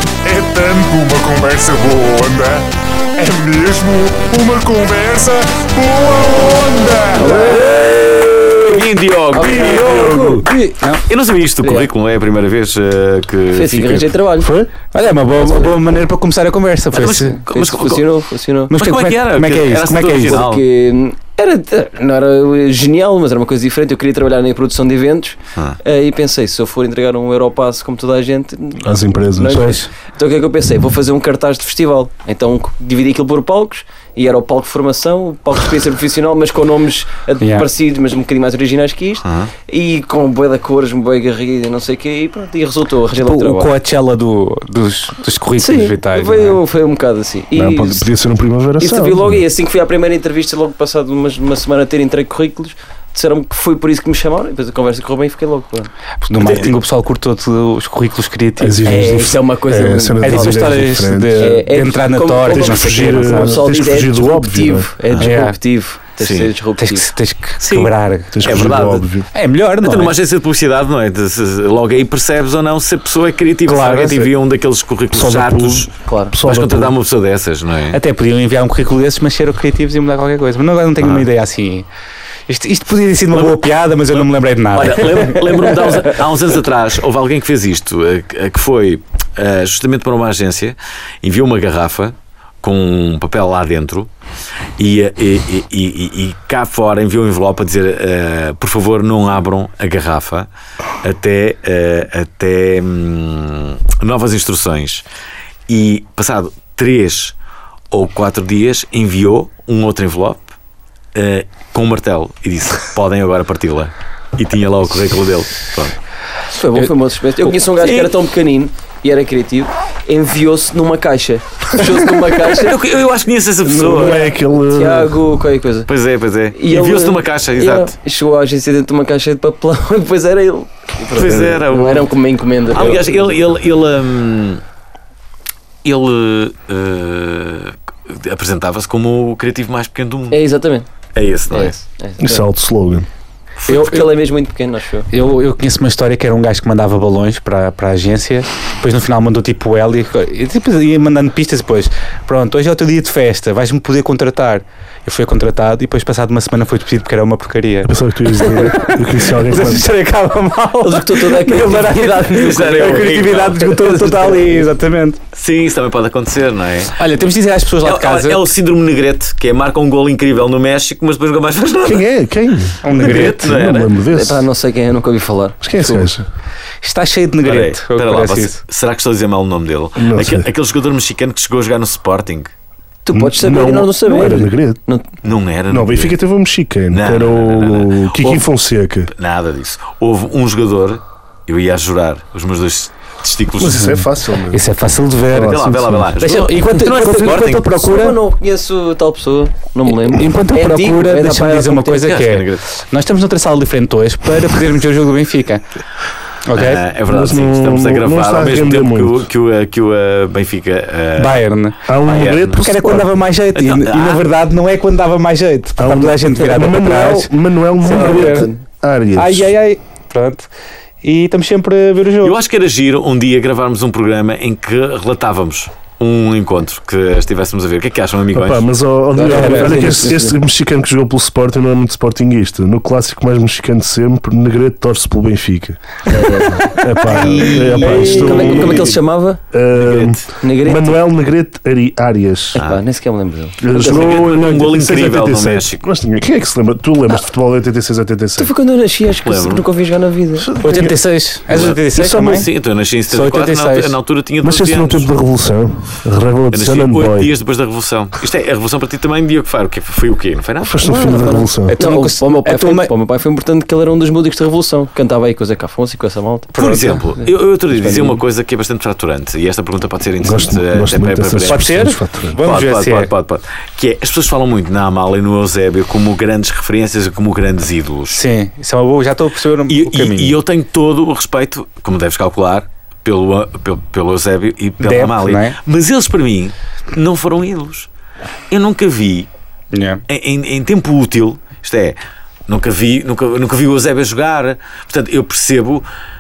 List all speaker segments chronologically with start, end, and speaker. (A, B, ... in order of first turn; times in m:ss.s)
0:00.2-0:07.6 A
0:07.2-0:07.7 B
0:07.3-0:07.6 C
0:07.6-0:09.9 D
0:09.3-0:10.6 B
0:09.4-0:11.0 C
0:09.6-0:10.4 A
0:11.1-0:14.1 D
0:11.6-0:11.9 B
0:13.5-0:14.5 B
0:14.4-0:14.7 E
0:14.9-0:17.4 C
0:16.9-0:18.0 D
0:17.4-0:18.7 B
0:18.7-0:20.4 C
0:18.8-0:20.6 D
0:20.0-0:43.7 B
0:28.8-0:29.8 E
0:29.5-0:29.9 C
0:37.4-0:37.7 C
0:39.2-0:39.5 D
0:43.2-0:46.6 C
0:45.6-0:48.1 B
0:47.6-0:49.4 E
0:48.8-0:56.7 B
0:56.2-0:59.2 C
0:58.6-1:01.6 E
0:58.8-1:07.1 B
1:00.2-1:03.7 C
1:02.5-1:04.9 E
1:05.2-1:05.6 C
1:06.2-1:06.5 D
1:06.8-1:08.7 C
1:07.6-1:09.3 E
1:08.4-1:09.1 D
1:09.3-1:10.2 C
1:09.8-1:15.9 D
1:13.7-1:14.3 C
1:15.1-1:17.0 E
1:16.1-1:16.3 B
1:16.4-1:18.0 D
1:17.9-1:21.9 C
1:21.0-1:21.3 D
1:22.5-1:26.0 C
1:23.3-1:34.1 D
1:34.8-1:40.5 D
1:41.0-1:45.0 D
1:45.7-1:47.3 D
1:47.9-1:50.4 D
1:51.1-1:56.0 D
1:56.5-2:02.8 B
1:57.8-1:58.1 D
2:02.5-2:04.2 D
2:03.6-2:05.2 E
2:03.8-2:05.9 B
2:05.9-2:07.9 D
2:06.5-2:13.3 B
2:11.1-2:12.1 D
2:12.7-2:14.6 D
2:15.8-2:20.4 D
2:20.3-2:20.9 B
2:21.2-2:21.8 D
2:21.5-2:22.5 B
2:22.2-2:23.1 E
2:23.6-2:24.1 D
2:23.7-2:24.1 C
2:23.7-2:25.1 B
2:25.1-2:45.2 C
2:37.8-2:39.9 E
2:40.8-2:43.3 B
2:42.2-2:44.5 D
2:45.3-2:47.0 D
2:47.0-2:48.5 C
2:47.8-2:52.0 D
2:51.8-2:54.4 E
2:52.8-2:53.5 C
2:52.9-2:54.0 D
2:54.0-2:56.1 B
2:55.6-2:56.2 E
2:56.8-2:58.6 C
2:57.4-3:02.5 D
3:00.0-3:00.5 E
3:03.0-3:05.1 B
3:03.1-3:04.8 E
3:05.2-3:06.2 D
3:05.7-3:09.1 E
3:06.9-3:08.4 D
3:09.1-3:14.0 D
3:13.6-3:14.6 E
3:13.7-3:18.2 C
3:15.3-3:16.1 E
3:15.4-3:17.8 D
3:16.8-3:22.2 B
3:19.9-3:25.6 C
3:22.0-3:22.7 D
3:26.4-3:26.8 C
3:26.6-3:31.4 D
3:27.1-3:29.3 E
3:31.2-3:31.8 C
3:31.9-3:33.1 E
3:32.0-3:32.6 D
3:32.6-3:37.3 C
3:33.5-3:34.2 D
3:35.8-3:39.5 E
3:37.8-3:38.6 B
3:37.9-3:38.5 C
3:39.2-3:40.5 C
3:41.0-3:42.4 C
3:42.2-3:48.6 D
3:48.3-3:59.0 E
3:49.2-3:50.4 B
3:49.2-3:50.0 C
3:56.1-3:59.4 B
3:57.0-3:58.9 D
3:59.5-4:02.6 E
3:59.8-4:00.2 D
4:00.4-4:01.0 B
4:02.6-4:02.8 D
4:02.6-4:04.2 B
4:03.6-4:08.5 E
4:03.7-4:05.8 D
4:08.4-4:10.5 B
4:09.2-4:09.6 D
4:10.4-4:11.0 E
4:10.6-4:12.5 C
4:11.5-4:15.1 D
4:13.1-4:14.0 C
4:14.4-4:17.3 E
4:16.5-4:21.0 D
4:20.6-4:21.8 E
4:20.8-4:26.6 B
4:21.7-4:22.9 C
4:26.5-4:31.8 D
4:26.6-4:27.1 C
4:27.2-4:28.2 B
4:30.2-4:32.4 E
4:31.5-4:33.1 C
4:32.4-4:38.2 D
4:38.1-4:40.4 C
4:39.7-4:47.9 D
4:44.8-4:45.6 C
4:48.5-4:49.3 D
4:49.7-4:50.0 C
4:50.1-4:52.0 D
4:52.5-4:55.8 D